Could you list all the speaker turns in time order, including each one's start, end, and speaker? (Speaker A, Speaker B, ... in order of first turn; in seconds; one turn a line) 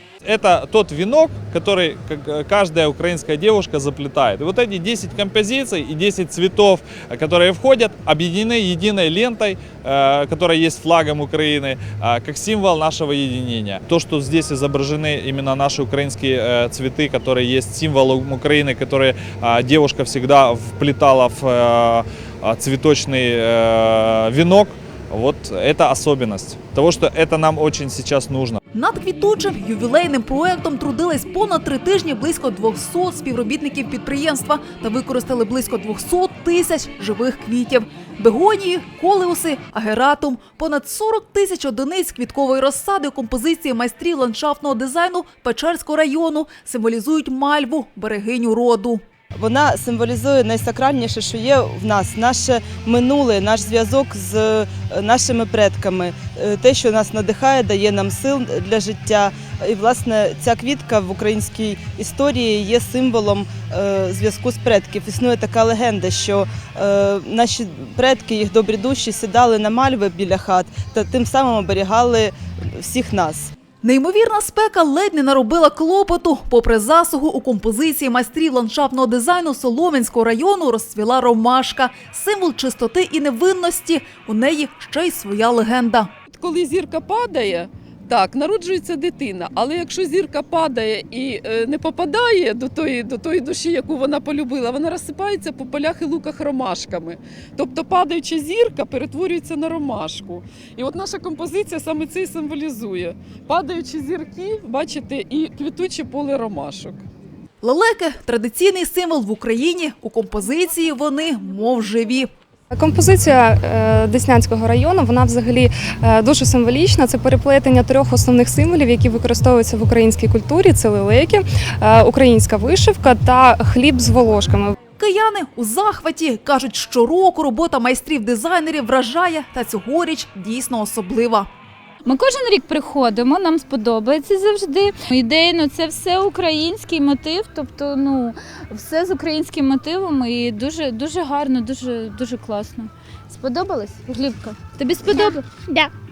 Speaker A: 0.2-28.6
Speaker B: 28.7-49.0
Speaker C: 49.3-73.5
Speaker B: 73.8-86.1
Speaker D: 86.3-107.0
Speaker B: 107.6-112.3
Speaker E: 112.7-124.8
Speaker B: 125.0-131.5
Speaker F: 132.1-145.8